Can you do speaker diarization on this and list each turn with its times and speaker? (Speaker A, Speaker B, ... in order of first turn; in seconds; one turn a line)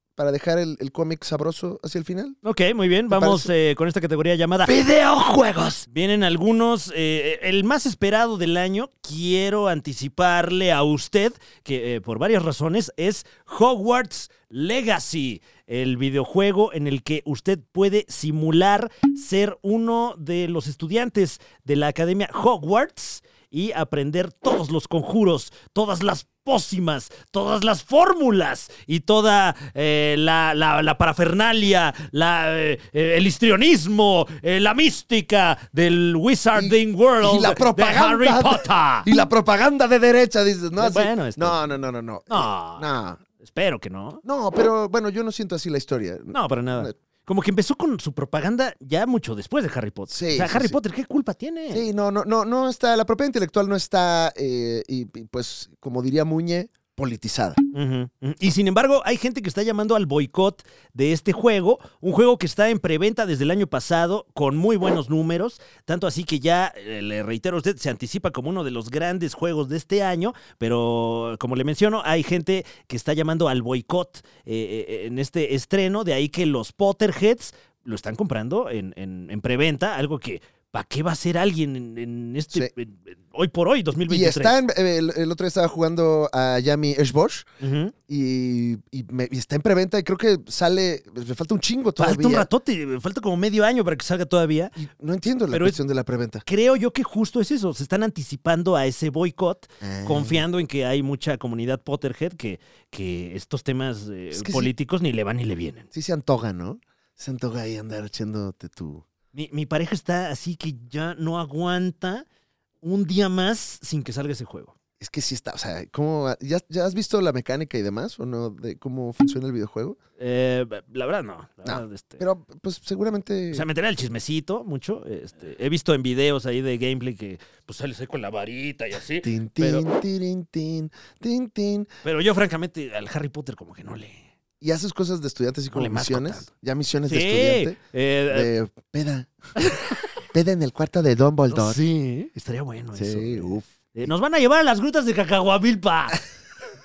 Speaker A: 0.1-2.4
Speaker B: 2.4-39.1
Speaker A: 3.1-3.5
Speaker A: 4.7-5.8
Speaker A: 36.5-43.2
Speaker B: 40.8-41.6
Speaker B: 42.3-42.9
Speaker B: 43.4-44.2
Speaker A: 44.2-46.9
Speaker B: 46.3-51.8
Speaker A: 50.1-50.8
Speaker A: 51.7-57.6
Speaker B: 57.7-84.6
Speaker A: 84.1-87.5
Speaker B: 87.6-87.9
Speaker A: 88.1-92.5
Speaker B: 92.0-94.8
Speaker A: 94.8-96.4
Speaker B: 95.5-95.8
Speaker B: 96.5-105.9
Speaker A: 99.8-100.4
Speaker A: 104.3-104.7
Speaker A: 105.9-109.0
Speaker B: 109.3-112.2
Speaker B: 112.8-114.7
Speaker A: 115.0-120.0
Speaker B: 120.2-122.2
Speaker A: 121.6-123.7
Speaker B: 123.5-129.9
Speaker A: 129.2-131.9
Speaker B: 132.0-134.3
Speaker A: 134.6-137.8
Speaker B: 135.7-136.4
Speaker B: 137.1-138.5
Speaker A: 138.3-139.3
Speaker A: 140.3-141.8
Speaker B: 141.5-146.2
Speaker A: 142.9-144.1